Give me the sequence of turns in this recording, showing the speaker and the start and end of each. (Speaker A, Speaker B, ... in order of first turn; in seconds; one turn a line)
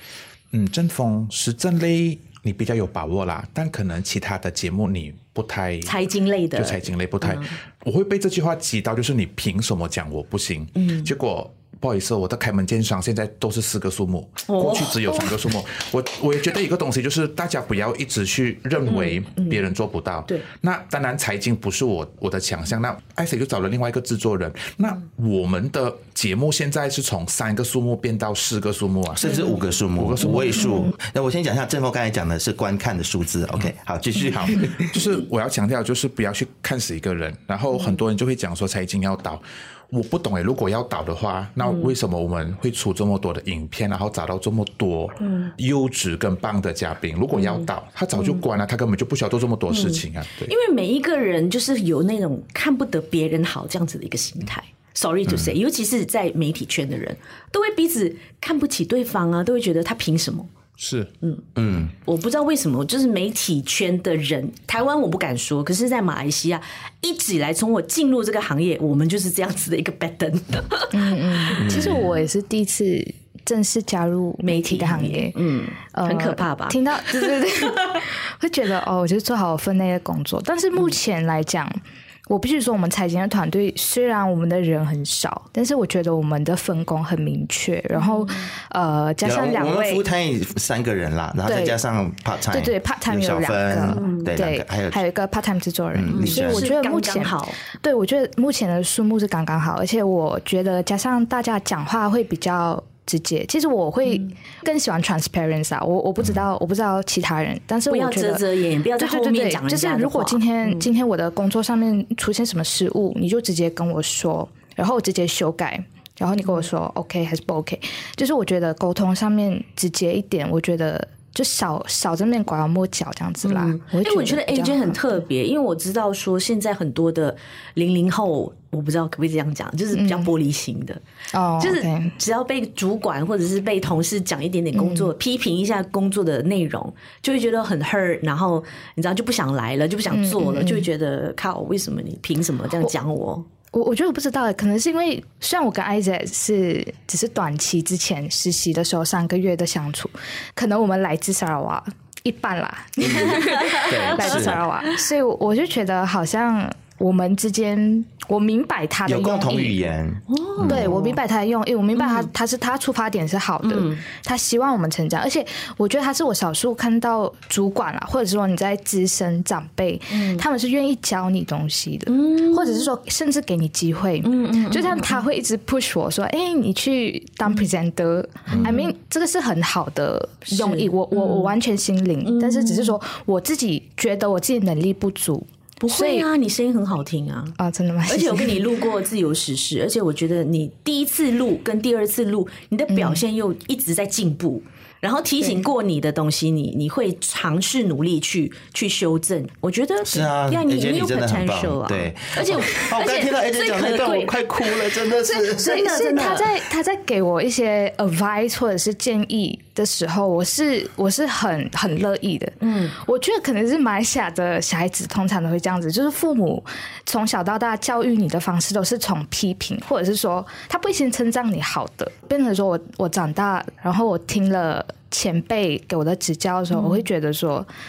Speaker A: 0.5-6.0
Speaker B: 5.8-7.5
Speaker A: 6.5-29.4
Speaker B: 10.8-11.1
Speaker B: 14.5-15.4
Speaker B: 18.9-19.6
Speaker C: 29.2-34.9
Speaker B: 29.2-29.6
Speaker A: 30.0-30.9
Speaker B: 30.2-30.9
Speaker A: 34.2-50.5
Speaker B: 37.7-38.0
Speaker B: 41.6-41.9
Speaker B: 45.2-45.5
Speaker B: 47.3-48.4
Speaker B: 49.7-60.5
Speaker A: 60.8-61.1
Speaker B: 61.2-71.9
Speaker C: 61.5-61.9
Speaker D: 70.9-75.4
Speaker C: 71.6-72.0
Speaker B: 74.4-78.0
Speaker D: 75.9-81.8
Speaker D: 82.3-90.0
Speaker B: 88.0-88.5
Speaker C: 89.2-95.0
Speaker D: 91.5-91.8
Speaker D: 92.5-108.5
Speaker B: 93.9-94.3
Speaker C: 95.9-96.7
Speaker B: 96.1-97.6
Speaker B: 107.9-110.8
Speaker D: 109.0-125.0
Speaker B: 123.4-131.0
Speaker D: 129.9-130.3
Speaker D: 131.3-132.2
Speaker B: 131.6-143.4
Speaker D: 134.7-135.1
Speaker D: 140.1-140.9
Speaker D: 143.7-159.8
Speaker C: 153.0-154.6
Speaker B: 153.1-155.0
Speaker C: 159.1-161.0
Speaker B: 160.3-161.2
Speaker D: 160.6-186.3
Speaker B: 161.9-162.3
Speaker B: 163.6-164.0
Speaker B: 170.1-170.4
Speaker B: 172.1-172.9
Speaker B: 174.2-175.2
Speaker B: 178.6-178.9
Speaker B: 180.5-181.6
Speaker B: 182.2-183.0
Speaker B: 185.8-206.5
Speaker D: 187.6-188.7
Speaker D: 192.9-193.2
Speaker C: 200.0-206.1
Speaker D: 205.2-227.7
Speaker B: 212.6-212.9
Speaker B: 226.7-227.0